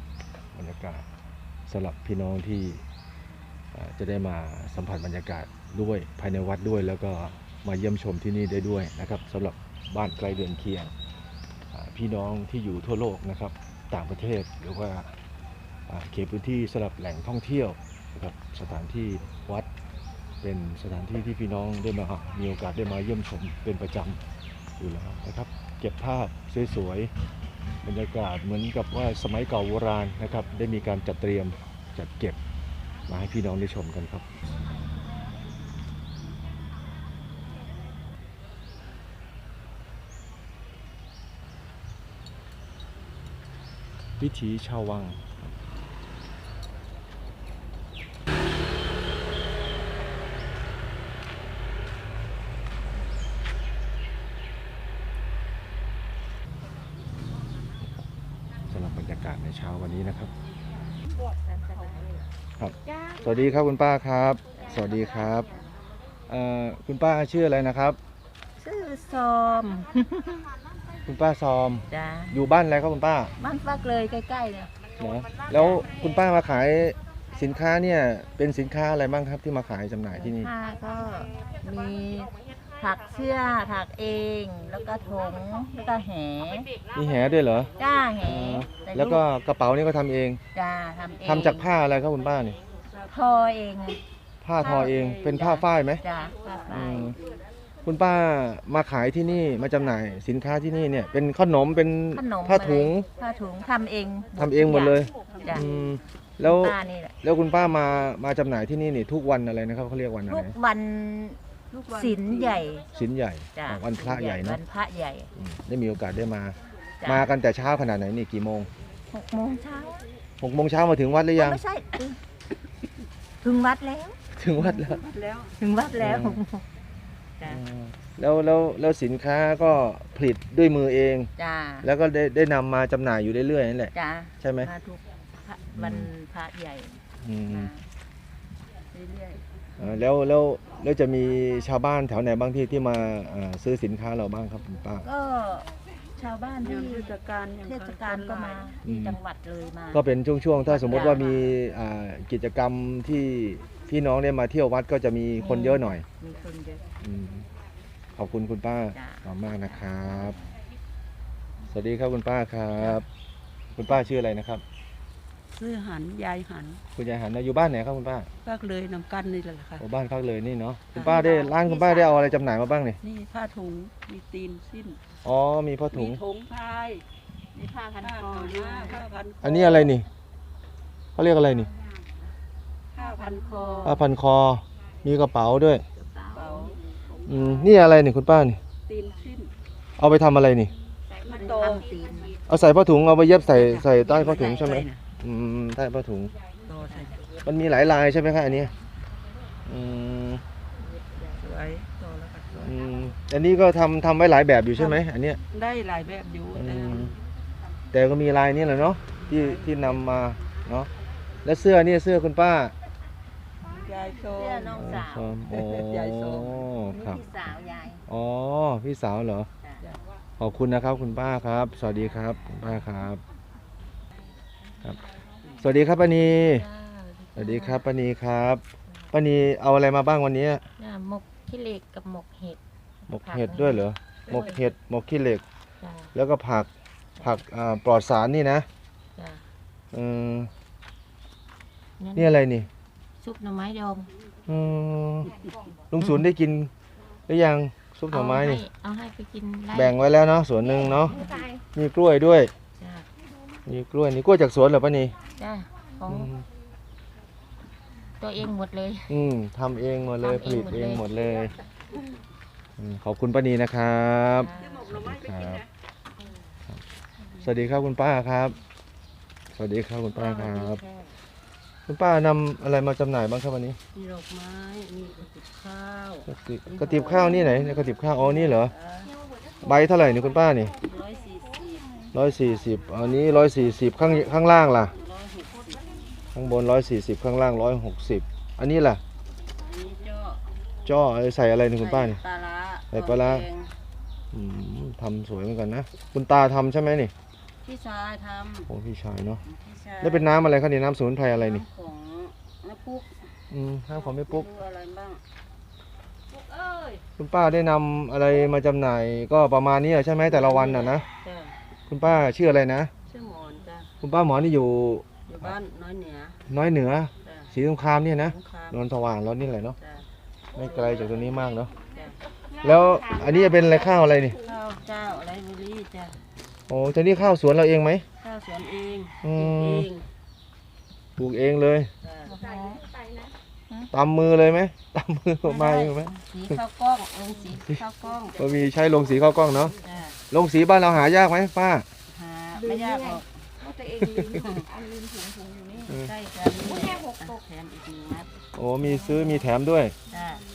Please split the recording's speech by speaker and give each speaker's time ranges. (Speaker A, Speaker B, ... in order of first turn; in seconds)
Speaker A: 0.5-1.1, 1.7-2.8, 3.7-10.9, 11.7-15.2, 15.9-19.7, 20.4-24.2, 24.8-27.1, 27.8-32.4, 33.1-34.3, 44.2-45.4, 57.8-58.1, 58.7-60.3, 62.6-65.5, 66.3-68.0, 71.1-73.3, 75.0-80.5, 86.9-90.4, 91.2-92.6, 94.4-96.0, 96.7-97.2, 97.8-103.1, 104.4-110.6, 112.9-114.6, 115.4-118.7, 120.4-121.6, 124.3-125.0, 126.0-126.4, 127.5-131.3, 131.8-134.7, 135.7-136.1, 137.2-137.7, 139.8-145.1, 148.8-149.2, 149.9-156.1, 157.0-157.5, 158.2-160.4, 161.7-163.1, 163.7-164.6, 167.0-168.3, 169.8-173.0, 175.2-176.2, 179.4-180.1, 181.2-181.7, 183.8-185.8, 187.3-188.6, 190.0-190.7, 192.5-196.3, 197.4-198.7, 199.7-200.4, 202.6-205.4, 206.5-207.1, 207.9-210.9, 211.4-212.7, 214.7-217.3, 218.1-219.5, 220.4-223.2, 224.8-226.7, 227.4-230.7, 233.1-235.4, 236.1-238.7, 239.9-240.5, 242.2-242.7, 244.5-245.3, 245.9-246.7, 247.3-248.7, 249.7-252.5, 253.7-255.2, 256.1-256.4, 259.1-261.6, 262.8-265.6, 267.4-268.6, 269.6-270.8, 271.9-273.8, 276.3-278.7, 279.6-280.8, 282.1-285.0, 286.3-289.0, 290.9-292.2, 292.9-293.5, 294.3-297.1, 298.7-299.4, 300.0-301.6, 303.5-304.5, 307.2-311.1, 311.9-312.9, 314.0-315.6, 316.5-319.8, 320.6-321.7, 322.6-324.4, 326.7-328.1, 329.2-329.9, 331.2-331.9, 333.9-336.6, 338.4-339.8, 340.3-341.9, 344.0-344.4, 345.9-346.1, 348.6-350.0
Speaker B: 61.9-62.2, 94.6-95.2, 105.3-106.0, 111.7-112.6, 125.1-125.5, 146.6-148.6, 165.6-166.8, 168.4-169.8, 170.9-171.5, 173.0-175.0, 175.9-177.0, 178.0-179.9, 182.9-183.9, 186.3-187.7, 188.9-189.5, 191.2-191.9, 193.6-193.8, 196.7-197.2, 201.4-202.7, 205.5-207.1, 209.2-210.2, 213.7-215.0, 215.5-216.6, 264.6-265.6
Speaker C: 62.9-63.4, 251.1-251.6, 332.4-333.3, 342.6-345.9, 346.5-347.4, 348.9-349.4
Speaker D: 64.6-65.0, 68.6-70.5, 71.9-72.4, 73.4-74.7, 75.5-75.9, 80.1-86.7, 87.8-89.2, 90.5-91.7, 93.1-94.0, 94.8-97.2, 102.1-105.7, 106.4-107.2, 110.3-112.9, 113.5-115.3, 117.0-117.3, 119.1-120.1, 121.3-122.2, 123.4-124.2, 125.5-126.6, 131.4-131.9, 133.9-137.8, 138.9-139.4, 145.0-150.0, 150.6-151.6, 155.4-156.8, 158.9-160.5, 171.0-172.1, 177.6-179.1, 183.0-184.1, 186.0-187.4, 191.2-192.4, 193.5-195.0, 196.7-197.2, 201.2-201.4, 214.3-215.4, 216.9-218.0, 226.4-227.8, 230.8-232.6, 233.1-234.6, 235.8-236.1, 239.2-239.4, 242.0-242.3, 243.2-244.1, 248.1-250.0, 250.6-251.4, 252.8-253.1, 255.4-256.3, 258.2-259.2, 260.2-261.0, 264.4-264.9, 270.1-271.1, 273.9-279.1, 280.8-282.1, 284.0-286.0, 289.6-290.5, 291.8-293.7, 297.6-298.7, 299.4-300.4, 301.3-303.3, 303.9-305.2, 306.6-307.0, 310.3-311.6, 313.1-313.9, 315.3-316.4, 317.2-317.5, 318.2-318.8, 319.8-320.1, 320.6-322.2, 324.4-326.2, 328.2-330.1, 332.0-332.8, 335.4-338.5, 339.8-340.2, 342.1-343.3, 344.3-344.7, 345.9-348.3, 350.1-350.4